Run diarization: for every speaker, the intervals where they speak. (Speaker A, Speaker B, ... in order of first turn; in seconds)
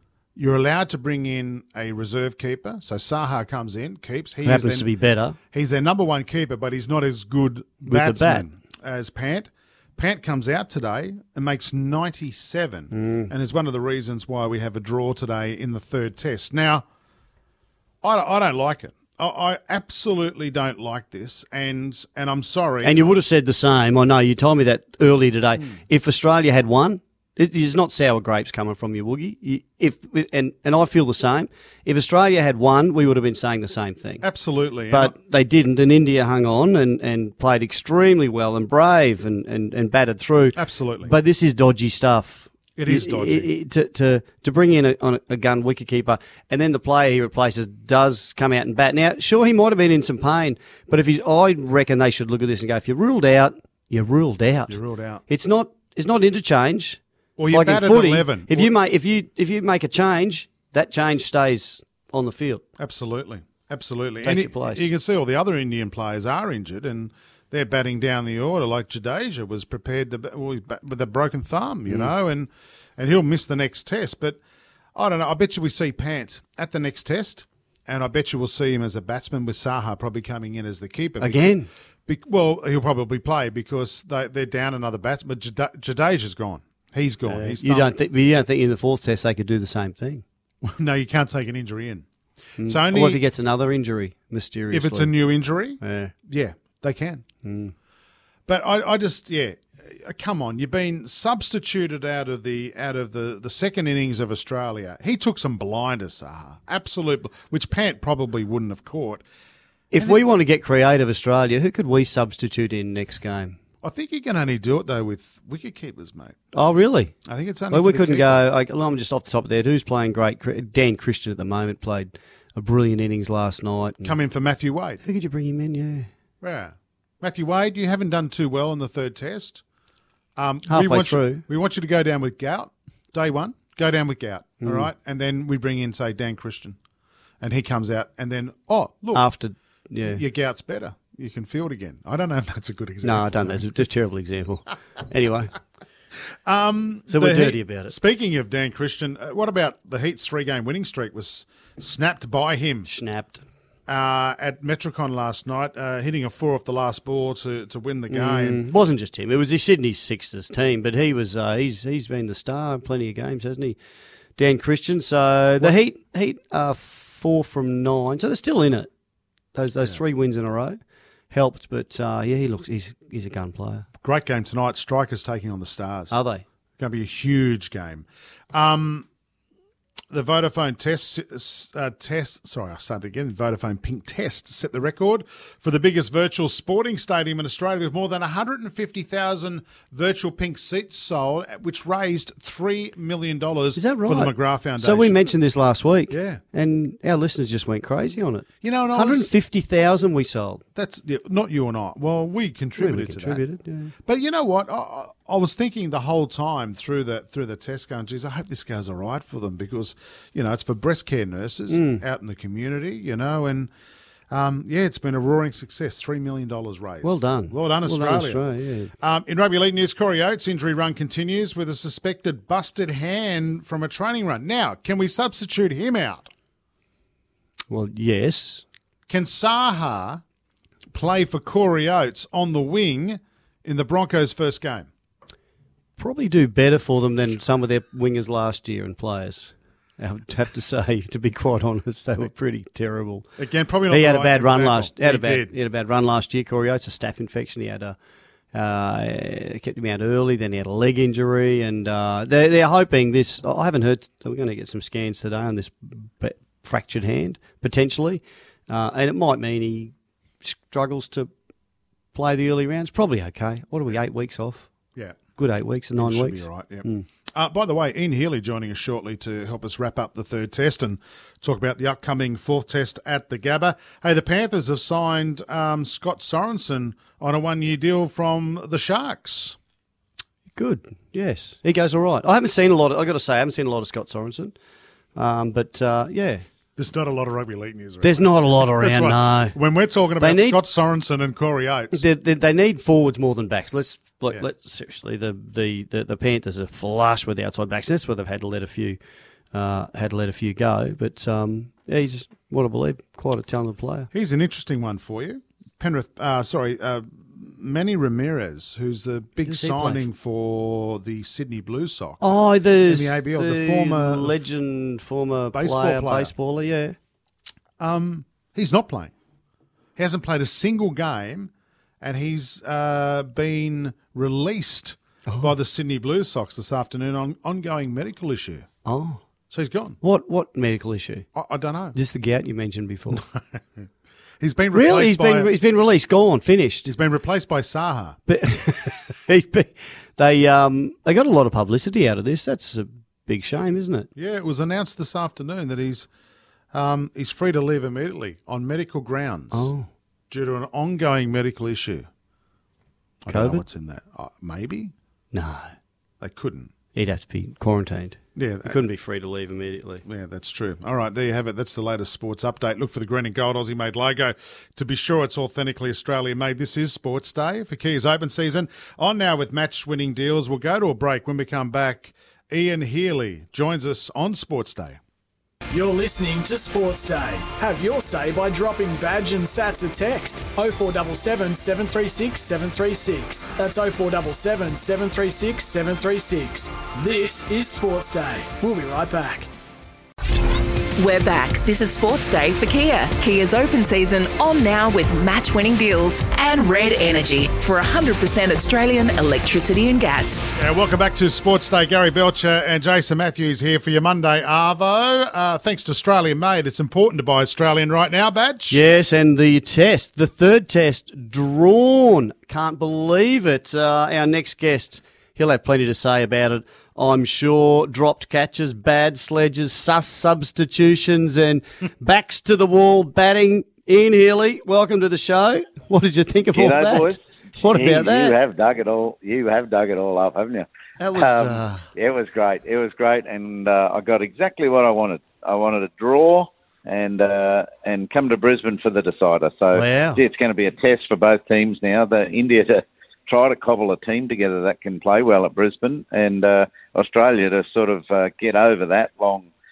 Speaker A: 0.4-4.9, 5.5-16.9, 18.0-23.0, 34.2-35.1, 40.5-41.1, 42.8-43.5, 54.7-55.2, 57.4-58.7, 62.8-74.4, 75.0-81.5, 82.1-87.9, 90.6-92.1, 92.6-93.2, 94.7-97.2, 98.5-109.2, 113.8-116.4, 117.2-118.5, 124.0-125.0, 126.4-129.6, 130.4-136.8, 137.4-139.3, 140.1-143.7, 146.4-152.9, 153.9-158.6, 174.0-176.2, 176.8-179.1, 180.1-195.2, 196.1-196.4, 198.6-199.3, 200.8-203.4, 204.1-213.7, 214.3-218.4, 219.0-226.3, 229.1-230.2, 230.9-234.9, 243.4-245.5, 264.9-265.2, 266.0-279.6, 286.8-292.0, 304.1-312.4, 312.9-314.4, 315.5-316.3, 317.8-319.1, 319.9-328.7, 329.5-330.0, 331.4-332.0, 333.1-333.6, 334.4-335.5, 336.9-338.2, 344.1-346.1, 346.7-349.7, 350.3-352.1, 353.2-354.9, 356.2-356.7, 358.4-358.8, 360.1-375.0, 400.6-408.8
Speaker B: 4.4-5.4, 7.8-8.5, 12.9-13.3, 22.8-34.2, 34.9-57.0, 57.5-62.6, 64.2-64.9, 81.2-81.7, 87.2-90.2, 92.6-95.2, 95.8-96.1, 97.4-97.7, 109.9-113.6, 116.5-117.1, 117.7-124.1, 125.0-126.1, 130.7-131.4, 134.6-134.9, 139.1-140.2, 143.0-145.5, 147.1-147.9, 152.9-153.4, 158.1-163.8, 164.4-168.9, 169.6-170.8, 171.3-173.9, 176.1-176.4, 193.8-200.6, 202.8-203.9, 211.7-212.0, 217.0-218.9, 227.7-228.6, 236.0-243.3, 243.9-247.9, 248.5-261.3, 262.1-264.7, 265.4-267.1, 280.6-284.5, 285.1-286.4, 288.0-289.6, 290.2-290.6, 291.9-299.0, 299.5-304.1, 309.4-310.1, 312.2-316.9, 328.9-329.2, 330.0-331.3, 331.9-333.2, 334.7-336.9, 338.3-344.1, 349.5-349.9, 353.3-353.6, 355.3-355.7, 356.9-360.0, 408.7-428.4, 431.0-431.9, 439.7-440.2
Speaker C: 375.7-389.5
Speaker D: 391.0-400.5
Speaker E: 426.5-449.5